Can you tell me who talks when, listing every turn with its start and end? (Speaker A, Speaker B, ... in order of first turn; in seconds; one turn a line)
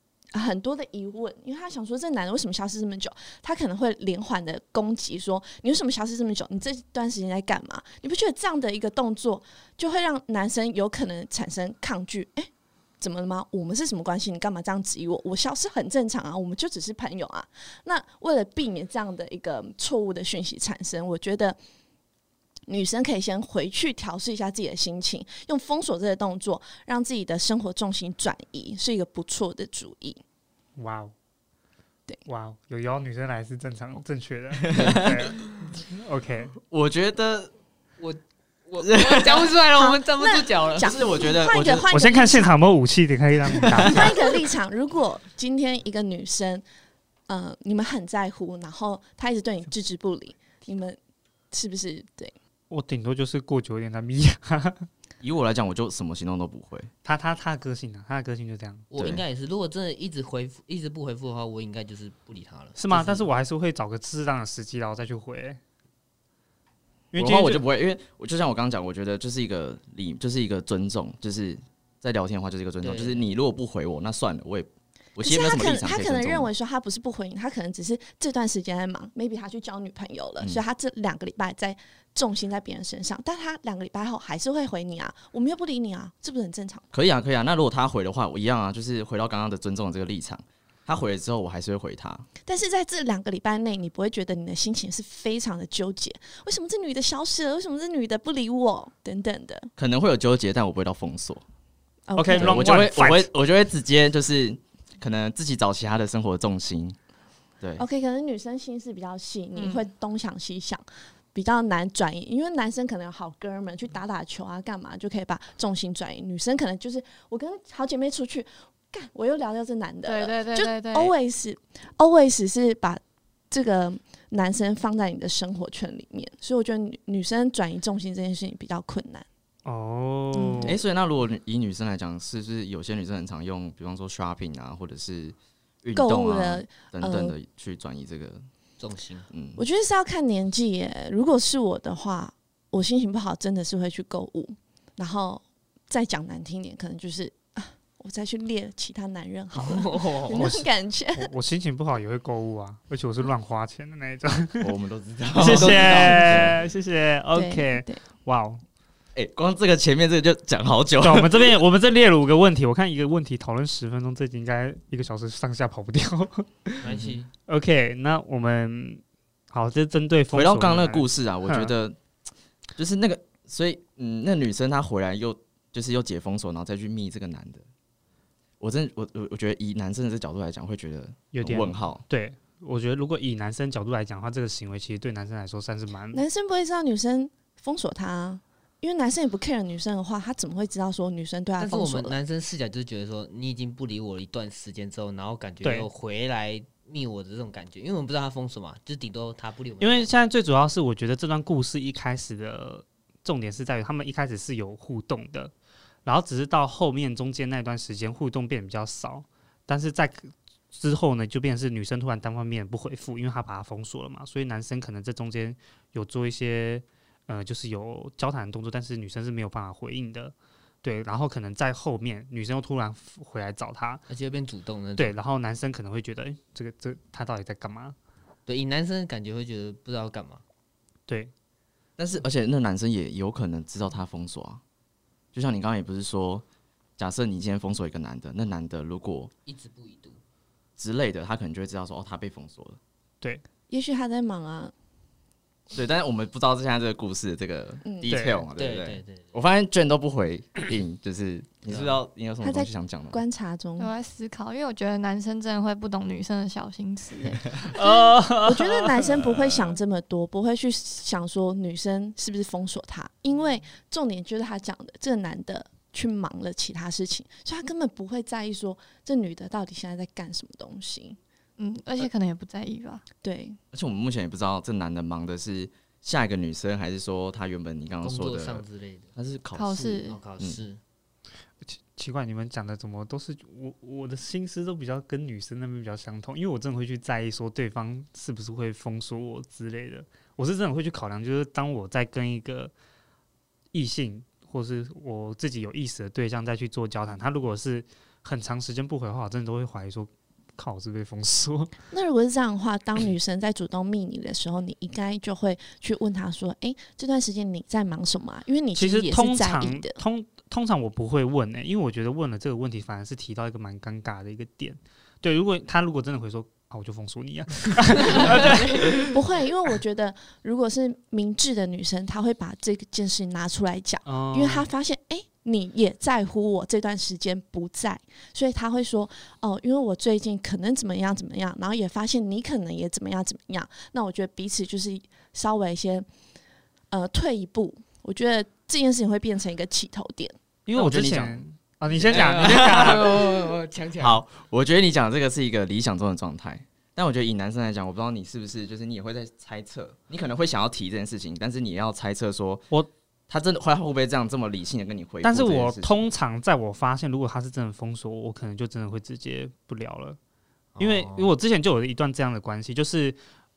Speaker A: 0.3-21.6
Speaker A: 22.7-30.2
Speaker B: 30.8-31.1
Speaker B: 32.3-36.5
Speaker C: 34.6-35.3
Speaker C: 36.7-37.5
Speaker D: 38.0-40.9
Speaker C: 38.8-39.5
Speaker A: 39.7-42.5
Speaker C: 40.8-41.9
Speaker B: 41.9-44.1
Speaker A: 43.8-46.6
Speaker A: 47.3-51.0
Speaker A: 51.5-52.4
Speaker B: 52.7-54.9
Speaker C: 55.2-56.9
Speaker B: 57.0-58.9
Speaker D: 58.9-63.3
Speaker C: 59.0-59.2
Speaker B: 62.8-65.6
Speaker B: 67.1-67.7
Speaker C: 67.2-76.5
Speaker D: 72.8-73.2
Speaker A: 75.2-86.9
Speaker C: 86.9-92.3
Speaker A: 92.5-99.7
Speaker C: 99.8-101.4
Speaker A: 102.1-102.8
Speaker B: 102.2-103.3
Speaker C: 102.3-107.0
Speaker A: 107.8-123.0
Speaker E: 109.6-109.8
Speaker E: 120.1-121.1
Speaker A: 123.5-129.3
Speaker B: 129.7-130.8
Speaker A: 130.3-130.8
Speaker C: 130.6-138.5
Speaker A: 135.9-137.3
Speaker D: 138.8-139.3
Speaker C: 139.3-139.6
Speaker A: 139.6-151.3
Speaker D: 149.6-150.5
Speaker B: 150.3-154.7
Speaker C: 154.6-156.6
Speaker B: 155.4-158.6
Speaker D: 155.4-156.6
Speaker A: 157.3-158.0
Speaker C: 159.2-161.5
Speaker B: 161.0-166.9
Speaker D: 166.8-167.3
Speaker C: 166.9-167.2
Speaker B: 167.5-171.7
Speaker C: 170.3-172.0
Speaker C: 172.8-177.7
Speaker C: 178.6-182.0
Speaker B: 181.3-186.2
Speaker A: 186.1-192.2
Speaker D: 191.6-200.1
Speaker B: 195.6-195.9
Speaker B: 199.8-205.5
Speaker B: 206.1-224.0
Speaker D: 224.1-225.2
Speaker B: 225.0-228.0
Speaker D: 228.5-230.4
Speaker C: 232.0-234.6
Speaker C: 235.3-236.4
Speaker C: 237.0-239.3
Speaker D: 239.5-240.2
Speaker C: 240.8-242.8
Speaker A: 243.7-244.7
Speaker C: 245.7-253.2
Speaker A: 247.8-248.2
Speaker B: 248.1-248.4
Speaker D: 248.6-249.3
Speaker D: 251.7-252.0
Speaker A: 252.4-253.9
Speaker E: 253.8-257.7
Speaker B: 257.7-259.2
Speaker A: 257.8-271.2
Speaker E: 271.6-273.0
Speaker A: 273.2-273.6
Speaker C: 273.7-280.6
Speaker D: 278.0-279.1
Speaker E: 279.6-280.2
Speaker D: 280.1-280.8
Speaker B: 281.8-292.7
Speaker B: 293.7-301.7
Speaker A: 301.9-310.0
Speaker B: 308.8-319.1
Speaker A: 318.3-336.1
Speaker B: 324.1-324.7
Speaker A: 336.9-340.4
Speaker B: 340.7-343.3
Speaker C: 340.8-341.4
Speaker C: 342.0-352.7
Speaker D: 342.1-344.2
Speaker C: 353.3-356.0
Speaker B: 355.2-360.2
Speaker D: 360.8-361.3
Speaker B: 360.8-363.2